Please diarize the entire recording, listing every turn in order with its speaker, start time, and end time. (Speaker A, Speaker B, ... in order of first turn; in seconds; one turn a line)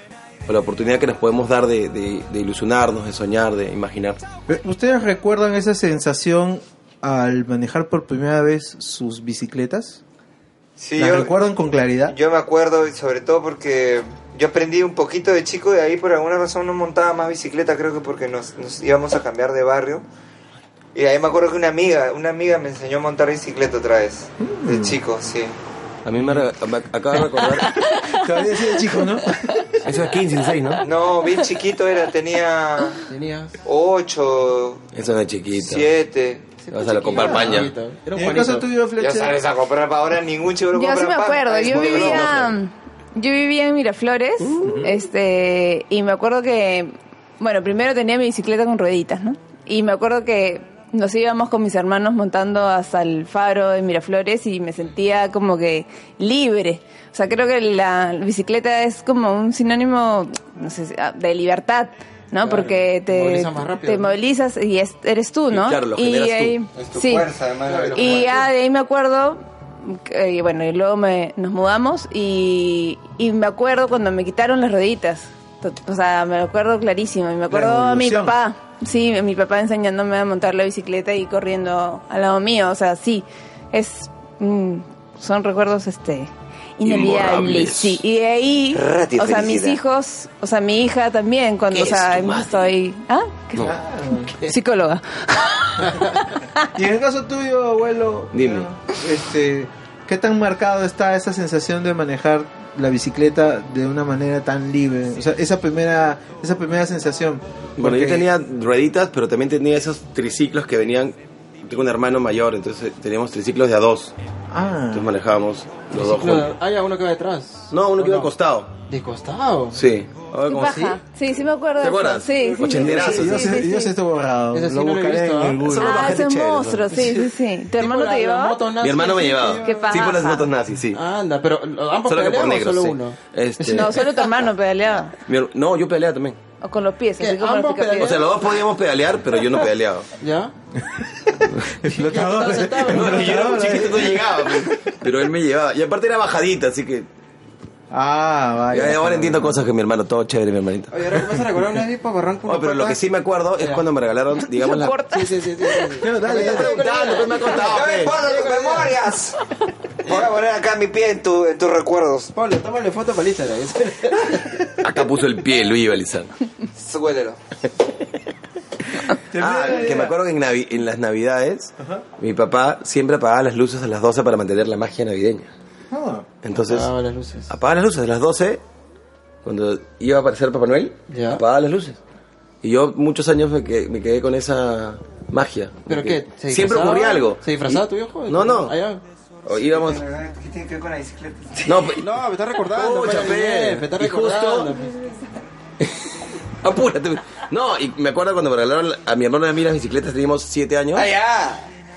Speaker A: 0.5-4.2
Speaker B: 4.5-10.0
Speaker C: 10.8-11.3
Speaker B: 10.9-12.1
Speaker C: 12.1-20.0
Speaker C: 20.9-25.6
Speaker B: 24.4-25.0
Speaker A: 26.0-27.8
Speaker D: 27.7-28.2
Speaker B: 28.0-29.8
Speaker A: 29.8-30.8
Speaker C: 30.8-33.0
Speaker E: 33.1-33.5
Speaker C: 33.6-34.8
Speaker A: 34.9-35.9
Speaker C: 35.6-36.5
Speaker E: 36.6-38.6
Speaker A: 36.7-37.7
Speaker B: 38.1-39.4
Speaker C: 39.0-42.4
Speaker D: 40.7-67.3
Speaker A: 41.6-42.5
Speaker A: 44.4-44.9
Speaker E: 62.4-64.2
Speaker A: 65.5-66.6
Speaker C: 66.7-68.5
Speaker A: 67.7-68.0
Speaker D: 67.9-93.7
Speaker B: 77.5-78.3
Speaker A: 86.8-88.0
Speaker C: 88.7-89.8
Speaker A: 91.7-92.7
Speaker B: 93.6-94.3
Speaker D: 94.3-96.6
Speaker E: 95.9-96.1
Speaker B: 96.7-108.3
Speaker A: 98.3-98.7
Speaker A: 107.8-114.1
Speaker B: 114.5-115.1
Speaker A: 114.9-116.5
Speaker E: 115.9-118.3
Speaker A: 117.7-118.7
Speaker E: 118.9-119.8
Speaker A: 119.7-121.0
Speaker D: 120.5-123.9
Speaker A: 121.8-123.6
Speaker B: 122.8-126.0
Speaker E: 124.5-125.7
Speaker A: 125.5-126.9
Speaker D: 125.8-128.6
Speaker E: 126.9-130.0
Speaker A: 128.8-131.0
Speaker D: 129.6-130.4
Speaker E: 130.9-133.2
Speaker A: 132.0-134.3
Speaker D: 133.6-135.2
Speaker A: 135.3-136.4
Speaker D: 136.6-138.2
Speaker E: 137.2-138.3
Speaker A: 137.9-140.1
Speaker E: 140.2-140.5
Speaker B: 141.8-144.7
Speaker E: 141.8-143.9
Speaker A: 142.8-147.1
Speaker B: 147.9-149.6
Speaker A: 148.7-151.1
Speaker E: 150.9-153.1
Speaker A: 152.4-155.0
Speaker E: 153.6-153.8
Speaker D: 154.5-155.9
Speaker E: 155.1-158.9
Speaker B: 156.0-156.9
Speaker A: 156.2-158.3
Speaker C: 157.6-159.4
Speaker C: 160.0-162.3
Speaker E: 162.3-164.7
Speaker A: 164.8-166.3
Speaker C: 166.8-167.4
Speaker B: 169.3-170.2
Speaker A: 169.3-175.5
Speaker B: 175.9-176.2
Speaker A: 176.4-176.9
Speaker E: 176.6-177.5
Speaker A: 177.5-178.6
Speaker A: 179.4-182.0
Speaker E: 181.1-181.4
Speaker A: 182.6-188.8
Speaker E: 185.9-189.0
Speaker A: 189.4-190.0
Speaker C: 189.5-191.9
Speaker A: 191.7-192.0
Speaker E: 192.0-195.0
Speaker A: 192.7-194.7
Speaker A: 195.8-201.1
Speaker C: 200.9-201.6